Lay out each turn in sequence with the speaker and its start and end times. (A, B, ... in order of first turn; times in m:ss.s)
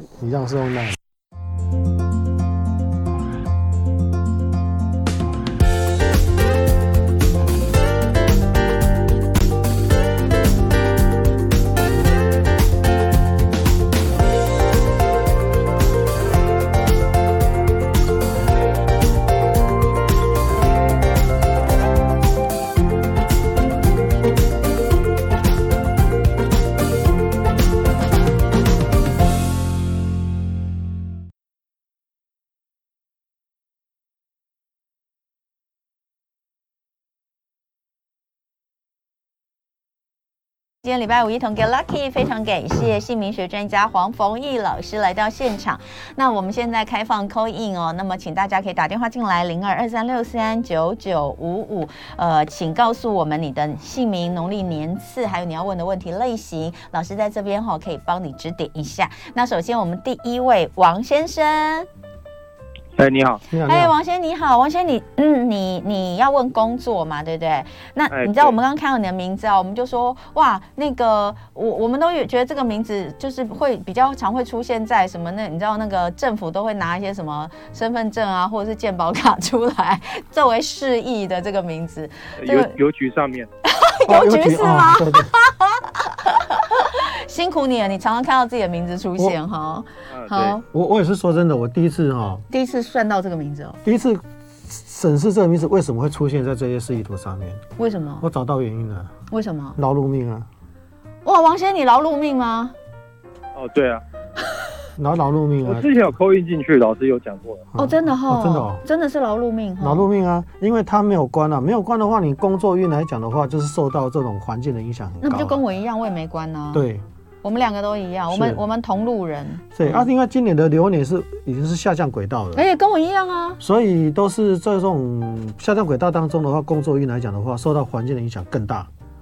0:00.2-0:01.0 A
0:40.8-1:01.9 B
1:03.0-1:03.4 C
1:03.5-1:03.9 A
1:03.6-1:22.8 B
1:08.1-1:08.6 C
1:22.4-1:23.5 C
1:23.6-1:30.6 B
1:24.1-1:25.3 A
1:30.1-1:30.6 C
1:30.6-1:32.4 A
1:32.5-1:33.8 B
1:33.8-1:37.6 A
1:37.8-1:38.3 B
1:38.2-1:39.1 A
1:39.3-1:39.8 B
1:39.8-1:40.5 A
1:41.2-1:42.8 B
1:43.6-1:44.0 C
1:45.0-1:45.9 A
1:45.6-1:47.7 C
1:47.7-1:48.8 A
1:47.8-1:50.1 B
1:49.8-1:55.6 A
1:55.2-1:56.9 B
1:56.7-1:57.0 A
1:57.4-2:00.1 B
1:58.3-1:58.6 A
1:59.8-2:02.6 A
2:02.6-2:03.6 B
2:03.6-2:08.9 A